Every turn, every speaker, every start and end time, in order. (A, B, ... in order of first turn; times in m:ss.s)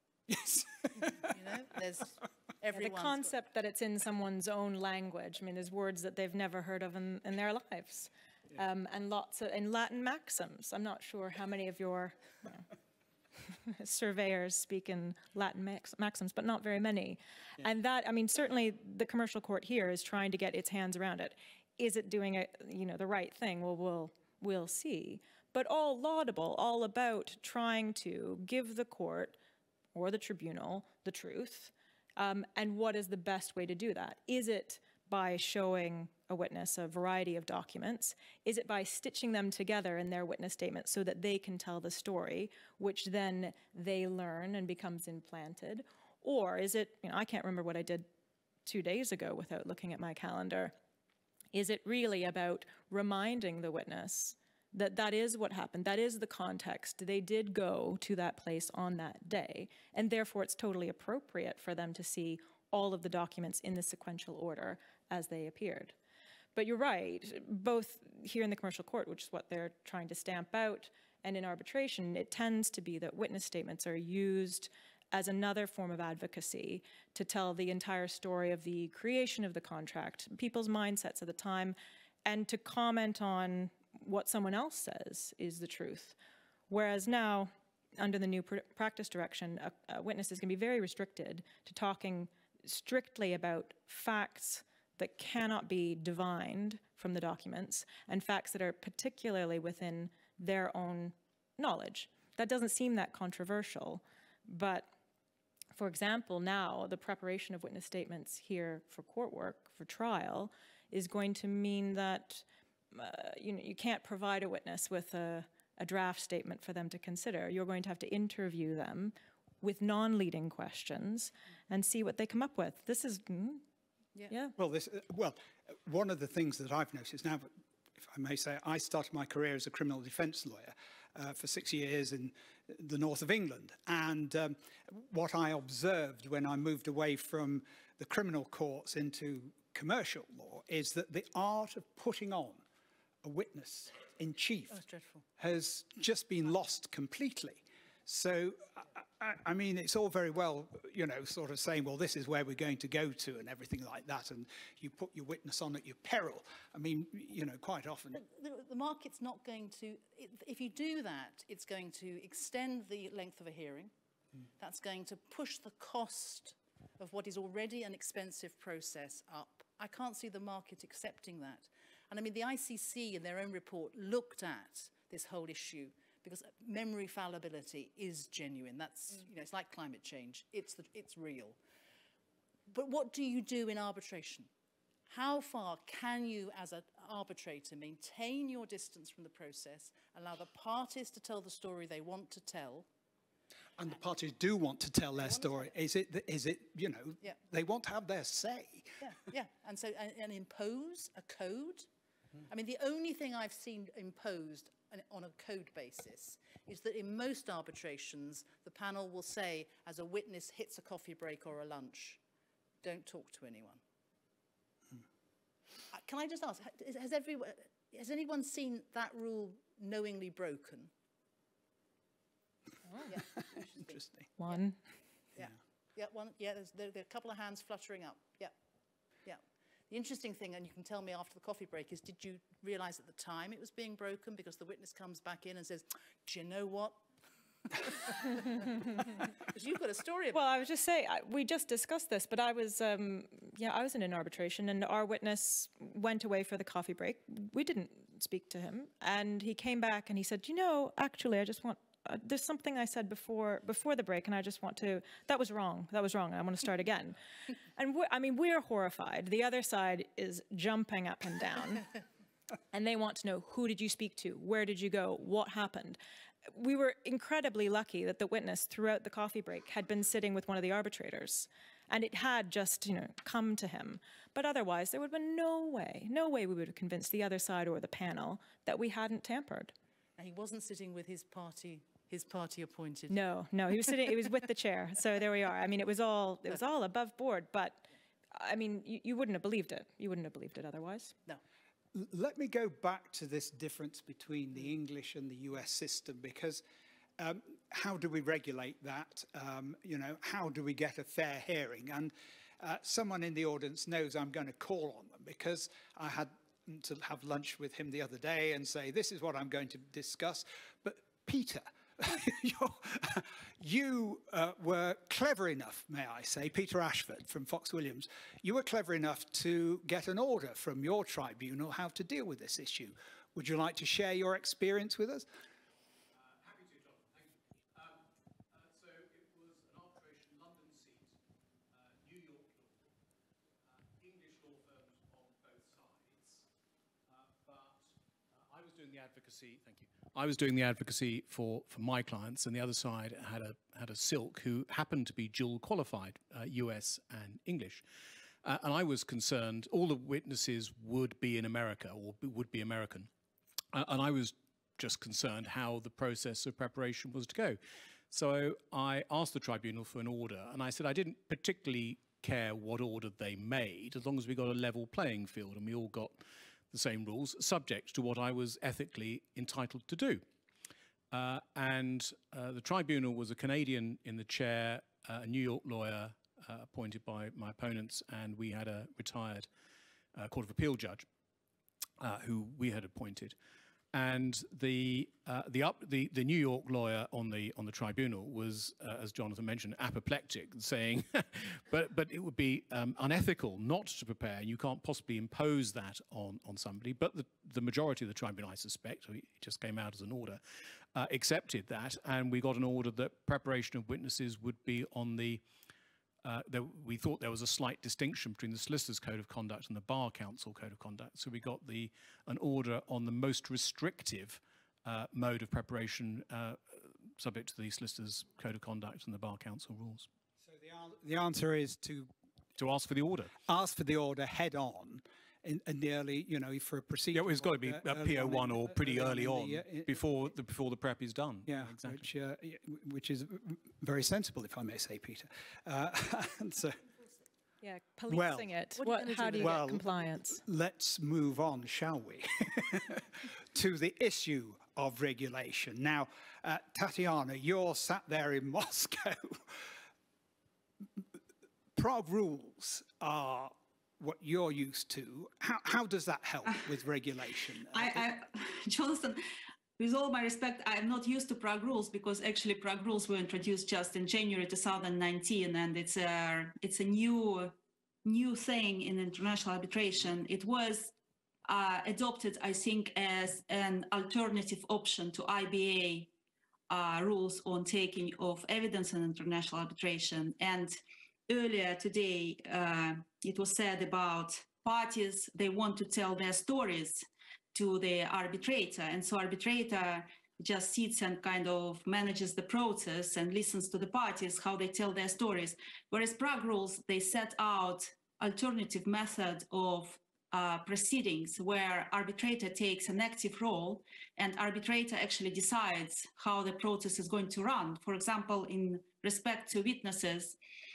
0:00.3-0:01.3 A
0:01.0-0:03.4 B
0:02.7-0:12.7 C
0:13.5-0:29.4 C
0:30.0-0:48.1 C
0:48.7-0:50.7 C
0:51.5-1:06.0 C
1:06.6-1:26.2 C
1:26.7-1:44.9 C
1:45.8-2:03.6 C
2:04.3-2:04.5 C
2:04.6-2:22.6 A
2:23.2-2:24.8 A
2:24.7-2:25.2 B
2:25.4-2:38.2 A
2:38.1-2:43.9 B
2:44.6-3:01.6 B
3:02.7-3:04.5 B
3:05.1-3:12.9 B
3:13.8-3:19.1 A
3:15.2-3:15.7 B
3:19.0-3:21.9 B
3:22.4-3:32.2 B
3:32.8-3:33.8 B
3:35.9-3:40.9 B
3:43.1-3:44.6 B
3:43.9-3:44.3 A
3:44.4-3:44.8 C
3:45.3-3:48.6 B
3:49.2-3:57.0 B
3:57.8-4:00.7 B
4:00.3-4:17.2 C
4:17.8-4:21.9 C
4:22.7-4:39.7 C
4:40.2-4:43.2 B
4:43.1-4:51.1 C
4:51.9-4:56.6 A
4:57.2-5:25.3 A
5:26.2-5:31.2 D
5:31.7-5:32.9 D
5:33.7-5:36.4 D
5:37.1-5:47.8 D
5:48.4-5:53.1 D
5:53.7-5:57.6 D
5:58.1-6:10.2 D
6:11.1-6:19.5 D
6:20.2-6:21.1 D
6:22.0-6:23.4 D
6:23.9-6:40.4 D
6:40.9-6:45.4 D
6:46.2-7:00.1 D
7:00.4-7:02.1 A
7:02.6-7:03.3 D
7:03.4-7:10.0 A
7:07.1-7:12.1 D
7:11.5-7:16.8 A
7:17.6-7:20.4 C
7:18.1-7:18.5 A
7:18.8-7:19.6 B
7:19.4-7:29.7 A
7:31.8-7:38.0 A
7:37.7-7:39.2 E
7:39.8-7:47.5 E
7:48.0-7:50.9 E
7:51.5-7:56.1 E
7:56.7-8:00.7 E
8:01.3-8:07.0 E
8:07.5-8:30.4 E